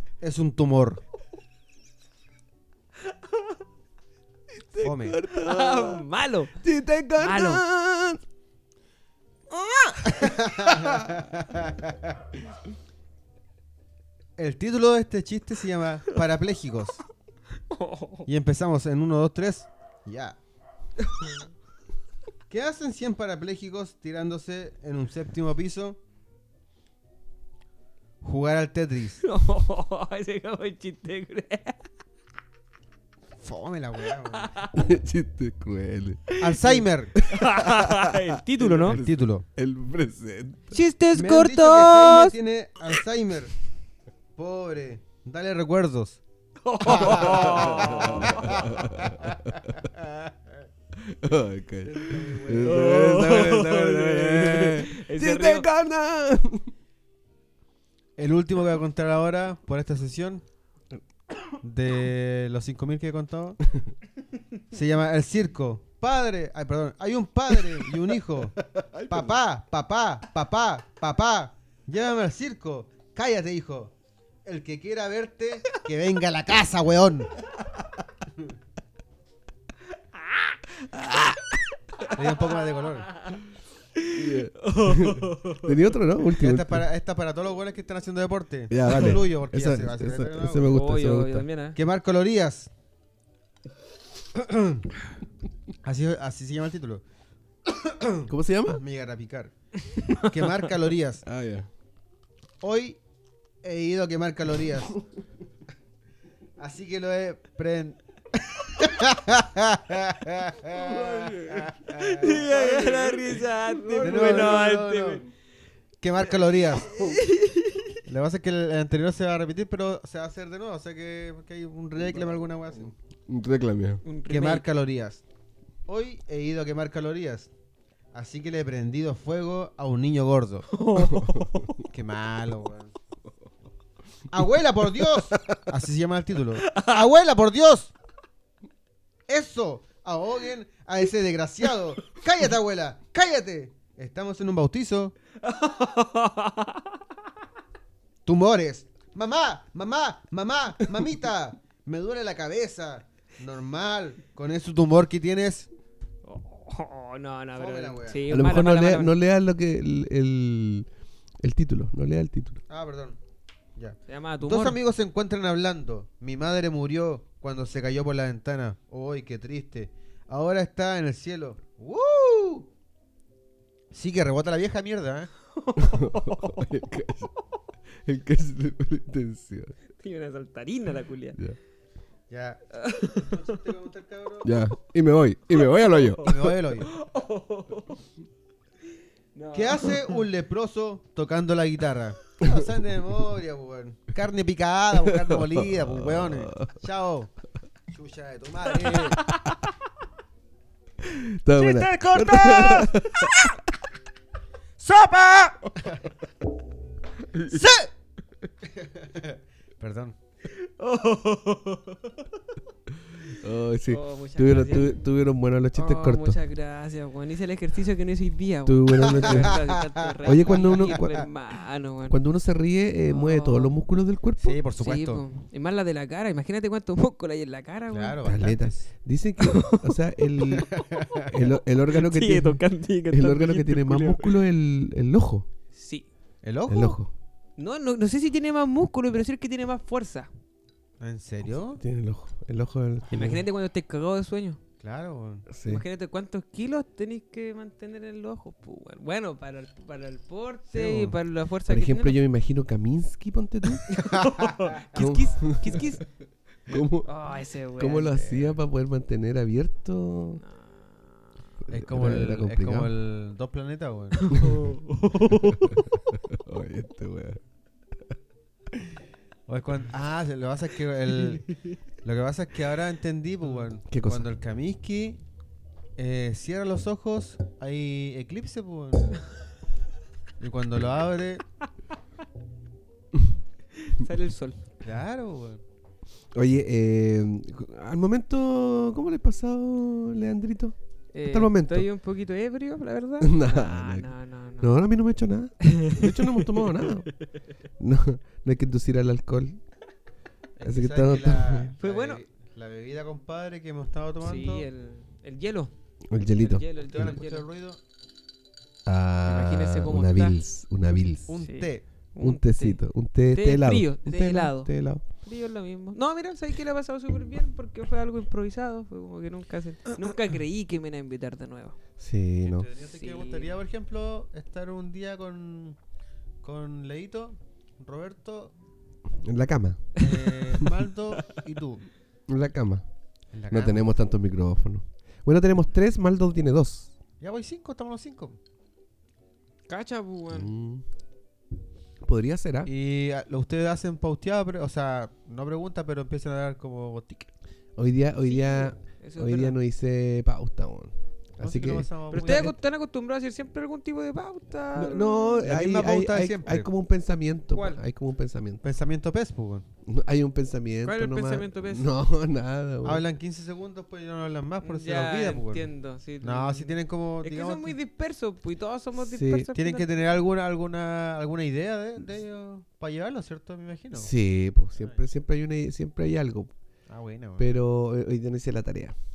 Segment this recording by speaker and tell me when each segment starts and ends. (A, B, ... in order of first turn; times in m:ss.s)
0:00.2-0:01.0 A
0:04.5-0:06.0 B
0:04.8-0:05.2 A
0:05.3-0:06.6 C
0:06.6-0:08.2 B
0:07.2-0:07.6 C
0:09.5-0:11.1 B
0:10.0-0:12.2 A
0:14.4-0:17.0 A
0:17.7-0:18.3 C
0:18.2-0:20.4 A
0:22.5-0:26.0 A
0:28.2-0:29.2 A
0:29.2-0:31.8 C
0:33.4-0:34.5 A
0:34.3-0:34.8 C
0:34.7-0:40.8 B
0:36.4-0:37.1 A
0:37.2-0:39.0 C
0:38.8-0:39.4 A
0:40.7-0:42.4 C
0:41.1-0:43.5 A
0:44.4-0:46.2 A
0:46.6-0:48.8 C
0:46.8-0:50.3 A
0:46.9-0:49.7 B
0:51.0-0:56.7 B
0:51.8-0:52.8 A
0:52.6-0:55.7 C
0:58.2-1:00.4 A
1:01.6-1:03.6 A
1:04.7-1:13.9 A
1:08.7-1:09.4 B
1:14.4-1:17.3 A
1:22.0-1:23.4 C
1:22.1-1:23.1 A
1:23.9-1:25.8 C
1:24.1-1:26.8 B
1:26.4-1:30.8 A
1:28.7-1:31.5 B
1:30.6-1:31.8 C
1:31.7-1:32.7 A
1:34.3-1:34.9 A
1:35.8-1:37.0 A
1:37.6-1:39.5 A
1:38.3-1:38.8 B
1:40.0-1:40.4 C
1:40.1-1:41.2 A
1:41.2-1:41.7 B
1:42.6-1:43.0 A
1:43.6-1:45.0 A
1:46.6-1:53.2 A
1:50.7-1:53.0 B
1:52.0-1:55.3 C
1:53.6-1:54.6 B
1:54.0-1:55.2 A
1:56.0-1:57.0 A
1:56.9-1:58.0 C
1:58.0-2:02.9 A
2:03.3-2:04.0 B
2:04.0-2:04.6 C
2:04.3-2:05.2 A
2:05.9-2:07.5 A
2:08.1-2:10.7 A
2:10.7-2:11.8 C
2:11.0-2:11.5 B
2:11.8-2:12.9 A
2:14.3-2:17.9 A
2:16.7-2:17.0 C
2:19.3-2:25.1 A
2:25.4-2:26.8 C
2:28.2-2:35.7 A
2:36.2-2:39.1 C
2:37.6-2:38.2 A
2:38.3-2:40.9 B
2:41.4-2:42.6 B
2:42.7-2:43.2 A
2:43.8-2:52.7 A
2:44.1-2:44.8 C
2:53.9-2:55.3 A
2:55.5-2:56.7 C
2:55.8-2:57.3 B
2:58.0-2:59.7 B
3:00.0-3:01.4 C
3:02.3-3:04.5 A
3:02.7-3:03.6 C
3:04.4-3:06.5 B
3:05.6-3:08.0 C
3:06.2-3:06.9 A
3:09.3-3:10.2 C
3:09.5-3:17.3 A
3:15.0-3:16.7 B
3:17.9-3:19.2 A
3:18.8-3:19.7 C
3:21.0-3:23.5 B
3:21.6-3:23.0 A
3:22.4-3:23.0 C
3:24.8-3:26.0 A
3:27.3-3:27.6 B
3:27.5-3:27.9 A
3:28.8-3:30.1 A
3:30.5-3:32.2 C
3:33.4-3:36.4 B
3:33.8-3:35.0 C
3:35.7-3:42.2 C
3:38.6-3:39.6 B
3:39.1-3:41.2 A
3:40.2-3:41.3 B
3:42.1-3:44.6 B
3:43.1-3:43.8 C
3:44.4-3:45.2 A
3:44.8-3:48.2 C
3:47.9-3:48.9 A
3:48.2-3:55.5 B
3:49.4-3:50.0 C
3:50.5-3:51.3 A
3:51.4-3:54.4 C
3:55.7-3:56.0 C
3:56.4-3:57.0 A
3:56.7-3:57.1 B
3:57.6-4:00.3 C
4:01.0-4:01.8 A
4:01.6-4:03.4 B
4:03.1-4:04.6 C
4:04.8-4:05.4 A
4:05.5-4:05.8 B
4:05.6-4:12.2 C
4:10.7-4:11.1 A
4:11.7-4:14.0 B
4:13.9-4:16.0 C
4:14.1-4:15.6 A
4:14.9-4:16.0 B
4:16.7-4:17.1 B
4:17.0-4:18.2 C
4:17.8-4:20.4 B
4:18.1-4:18.6 A
4:20.4-4:21.3 C
4:21.7-4:22.9 B
4:21.7-4:24.4 A
4:24.2-4:26.0 C
4:25.6-4:27.4 B
4:29.5-4:31.5 A
4:32.0-4:35.2 A
4:33.9-4:34.3 B
4:36.0-4:39.2 A
4:40.4-4:41.4 A
4:43.8-4:44.6 C
4:44.8-4:45.6 A
4:46.3-4:51.9 B
4:51.1-4:54.8 C
4:53.2-4:57.1 B
4:55.6-4:57.1 C
4:57.8-4:59.6 B
5:00.6-5:04.7 A
5:00.6-5:01.7 B
5:01.8-5:02.2 C
5:04.2-5:05.7 C
5:06.1-5:07.1 B
5:06.3-5:07.4 C
5:06.8-5:07.8 A
5:08.8-5:11.3 B
5:09.2-5:10.4 C
5:11.3-5:11.8 A
5:11.4-5:21.8 C
5:12.2-5:15.0 B
5:22.0-5:22.6 B
5:22.4-5:25.8 A
5:22.8-5:23.5 C
5:26.4-5:28.5 A
5:29.2-5:30.0 B
5:30.0-5:31.8 A
5:32.3-5:32.8 B
5:33.3-5:33.9 A
5:33.5-5:36.9 B
5:37.2-5:38.4 A
5:39.7-5:40.5 C
5:40.3-5:40.8 B
5:42.0-5:42.7 B
5:42.6-5:47.3 A
5:47.8-5:52.6 B
5:48.2-5:49.6 C
5:51.4-5:52.5 A
5:52.1-5:55.5 C
5:54.7-5:58.6 B
5:55.4-5:56.7 A
5:57.5-5:57.8 C
5:58.6-5:59.6 A
5:59.8-6:03.0 B
6:00.8-6:01.9 C
6:02.8-6:05.7 A
6:04.6-6:09.8 C
6:06.2-6:07.8 A
6:09.0-6:09.5 B
6:09.5-6:14.1 A
6:13.9-6:16.5 B
6:14.8-6:15.0 A
6:16.9-6:17.5 A
6:17.4-6:19.0 B